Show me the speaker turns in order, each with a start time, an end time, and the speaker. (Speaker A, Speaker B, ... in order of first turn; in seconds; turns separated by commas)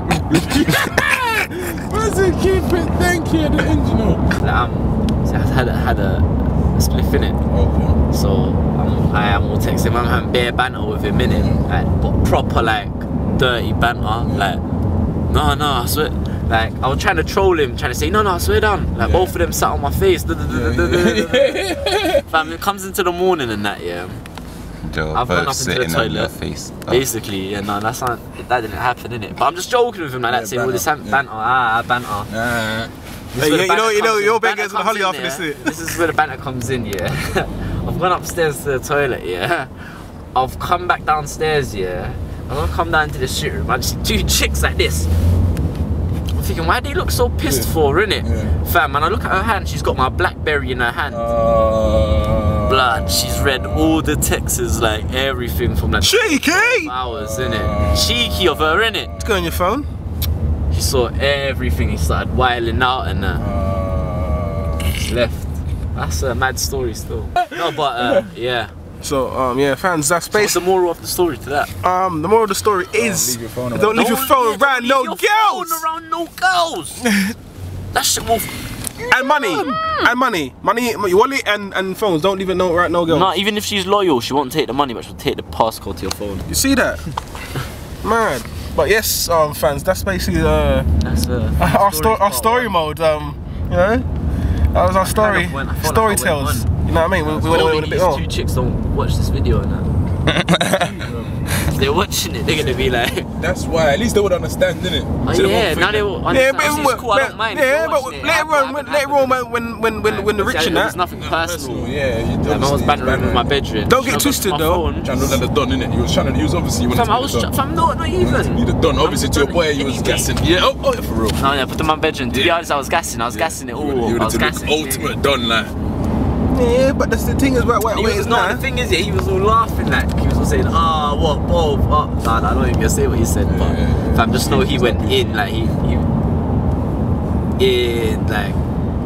Speaker A: 0.1-4.2, Speaker B: 4.4-7.4, Speaker A: 7.5-8.0, Speaker B: 8.1-14.6, Speaker A: 11.2-11.6, Speaker A: 14.2-14.5, Speaker B: 15.3-21.6, Speaker A: 19.0-19.3, Speaker A: 20.5-22.2, Speaker B: 22.3-24.2, Speaker C: 24.8-27.1, Speaker B: 25.1-32.3, Speaker A: 30.3-31.2, Speaker A: 32.3-32.9, Speaker D: 33.3-35.8, Speaker B: 33.3-45.1, Speaker B: 46.3-51.3, Speaker A: 47.4-47.7, Speaker A: 48.2-48.5, Speaker A: 51.1-54.0, Speaker B: 52.6-59.1, Speaker D: 56.0-56.9, Speaker A: 57.0-59.5, Speaker D: 59.2-59.9, Speaker B: 60.7-63.4, Speaker A: 63.4-64.9, Speaker B: 64.9-68.7, Speaker A: 67.5-68.2, Speaker D: 69.0-70.6, Speaker B: 70.3-71.7, Speaker D: 71.8-75.8, Speaker A: 72.9-74.1, Speaker B: 73.9-77.0, Speaker D: 77.0-77.3, Speaker B: 77.9-80.1, Speaker D: 79.1-83.3, Speaker B: 83.1-86.5, Speaker D: 86.5-87.0, Speaker D: 88.0-90.9, Speaker B: 91.0-92.7, Speaker D: 91.6-94.0, Speaker D: 94.7-98.2, Speaker B: 95.0-96.7, Speaker B: 97.3-99.9, Speaker A: 100.8-101.4, Speaker B: 101.5-103.3, Speaker A: 103.4-106.1, Speaker B: 105.2-109.4, Speaker D: 106.3-111.0, Speaker B: 110.0-111.9, Speaker A: 111.1-113.5, Speaker B: 112.4-115.4, Speaker D: 113.8-114.9, Speaker A: 115.0-117.5, Speaker B: 116.9-120.3, Speaker A: 118.2-121.4, Speaker B: 121.4-125.1, Speaker A: 122.3-122.6, Speaker A: 123.3-125.7, Speaker D: 126.5-128.6, Speaker B: 127.9-136.1, Speaker A: 133.4-135.7, Speaker B: 137.6-138.6